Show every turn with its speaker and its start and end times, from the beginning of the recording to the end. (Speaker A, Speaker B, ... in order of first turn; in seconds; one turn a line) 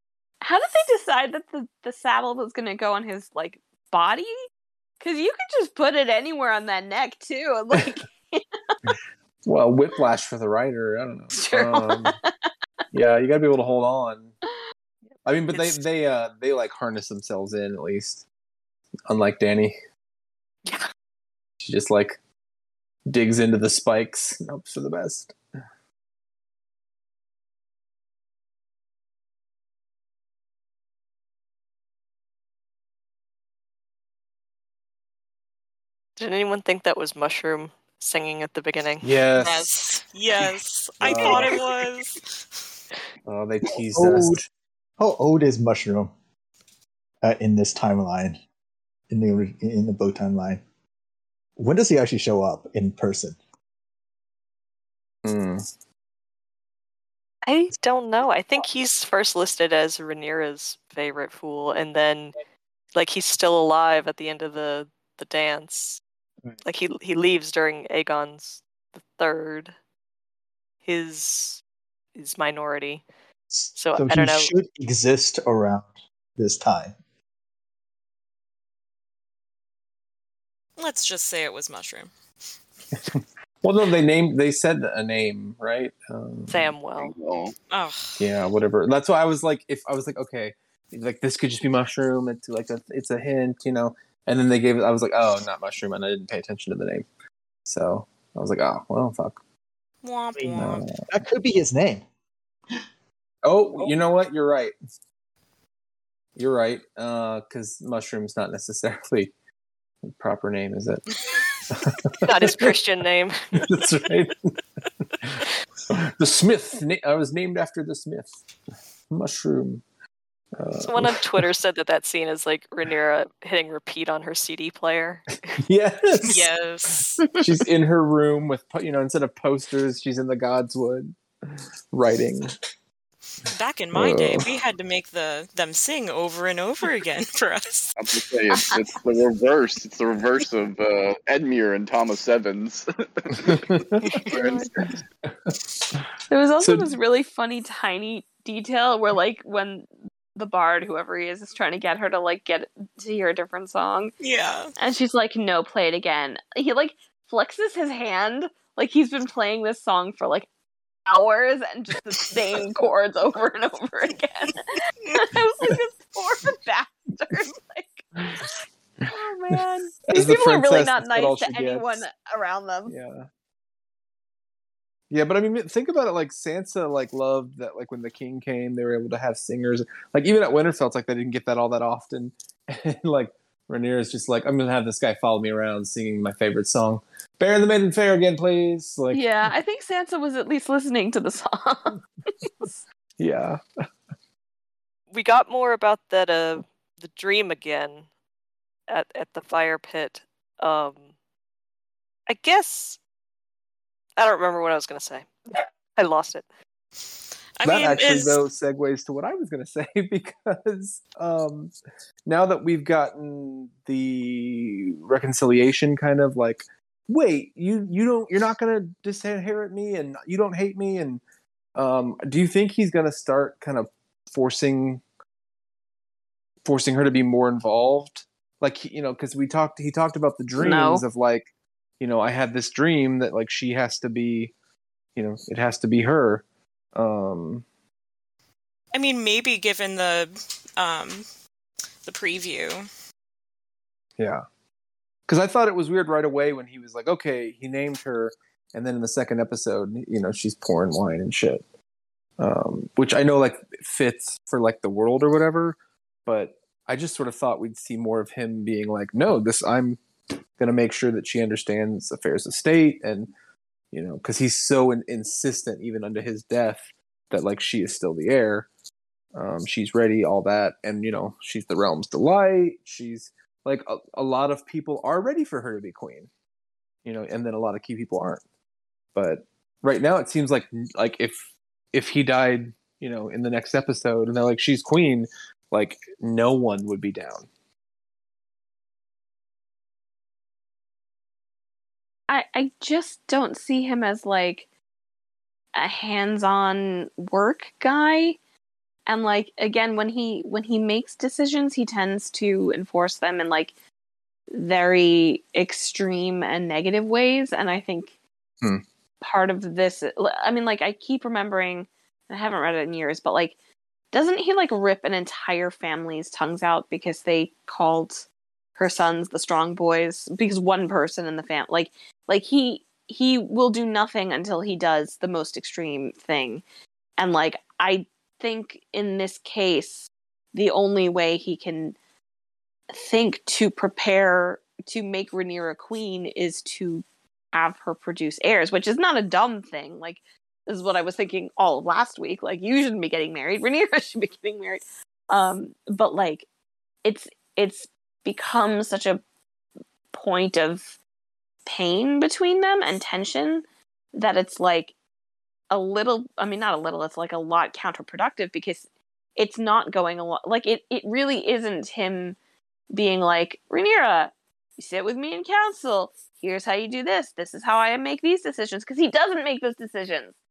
Speaker A: 0.4-4.4
Speaker A: 5.0-8.4
Speaker B: 9.4-12.2
Speaker A: 11.3-12.3
Speaker B: 12.9-14.3
Speaker B: 15.2-18.2
Speaker C: 15.5-15.8
Speaker B: 19.1-19.8
Speaker C: 20.6-20.9
Speaker B: 21.6-22.2
Speaker B: 23.1-25.4
Speaker C: 36.2-39.1
Speaker B: 39.0-39.7
Speaker D: 39.4-42.3
Speaker B: 41.0-41.6
Speaker B: 43.2-44.5
Speaker E: 43.9-44.4
Speaker E: 45.0-46.1
Speaker E: 47.2-48.4
Speaker E: 49.1-50.6
Speaker E: 51.6-53.4
Speaker B: 55.2-55.6
Speaker C: 57.4-62.3
Speaker C: 62.9-66.0
Speaker C: 66.6-69.7
Speaker C: 70.8-71.6
Speaker C: 72.1-73.0
Speaker E: 73.5-76.9
Speaker C: 73.7-74.5
Speaker D: 80.8-82.1
Speaker B: 82.9-86.7
Speaker C: 86.5-87.1
Speaker F: 87.0-87.5
Speaker D: 87.7-88.3
Speaker B: 88.2-97.1
Speaker B: 97.6-99.4
Speaker D: 100.0-100.8
Speaker E: 100.4-102.0
Speaker B: 100.5-101.1
Speaker B: 103.4-104.7
Speaker B: 106.3-109.3
Speaker B: 110.0-111.0
Speaker D: 111.1-111.6
Speaker B: 111.7-112.7
Speaker C: 112.2-113.7
Speaker B: 113.5-114.5
Speaker B: 115.2-118.3
Speaker B: 119.1-119.8
Speaker B: 120.6-121.4
Speaker C: 120.8-125.5
Speaker B: 125.6-132.5
Speaker D: 126.2-127.2
Speaker D: 133.5-138.0
Speaker B: 133.9-134.5
Speaker F: 137.9-143.6
Speaker A: 138.5-138.8
Speaker B: 143.4-144.2
Speaker F: 144.3-144.9
Speaker B: 144.8-146.9
Speaker A: 146.3-154.1
Speaker D: 154.2-154.7
Speaker A: 154.8-160.5
Speaker A: 161.1-168.1
Speaker B: 168.1-172.0
Speaker A: 169.1-172.9
Speaker B: 172.9-173.3
Speaker B: 175.1-189.5
Speaker A: 189.1-192.0
Speaker B: 192.4-192.7
Speaker B: 193.2-193.6
Speaker C: 195.1-198.1
Speaker C: 198.9-201.0
Speaker C: 202.3-203.0
Speaker C: 204.2-206.4
Speaker D: 207.6-208.4
Speaker B: 207.6-211.7
Speaker B: 212.2-221.2
Speaker B: 221.8-225.0
Speaker B: 226.6-231.5
Speaker A: 230.6-231.1
Speaker B: 232.0-234.5
Speaker B: 235.1-237.6
Speaker D: 238.9-241.2
Speaker D: 242.0-242.9
Speaker B: 244.2-244.4
Speaker B: 245.3-251.6
Speaker B: 252.4-260.0
Speaker B: 260.6-263.3
Speaker B: 263.9-268.7
Speaker B: 269.3-276.3
Speaker B: 277.0-278.4
Speaker B: 279.1-287.5
Speaker A: 292.3-294.6
Speaker A: 295.7-298.4
Speaker A: 299.1-303.7
Speaker A: 304.5-308.1
Speaker A: 309.2-313.5
Speaker A: 314.1-318.2
Speaker A: 318.8-326.6
Speaker A: 327.2-331.9
Speaker A: 332.9-346.4
Speaker A: 347.0-349.2
Speaker A: 350.1-351.0
Speaker A: 351.6-354.9
Speaker A: 355.7-358.8
Speaker A: 359.4-362.4
Speaker A: 362.9-370.3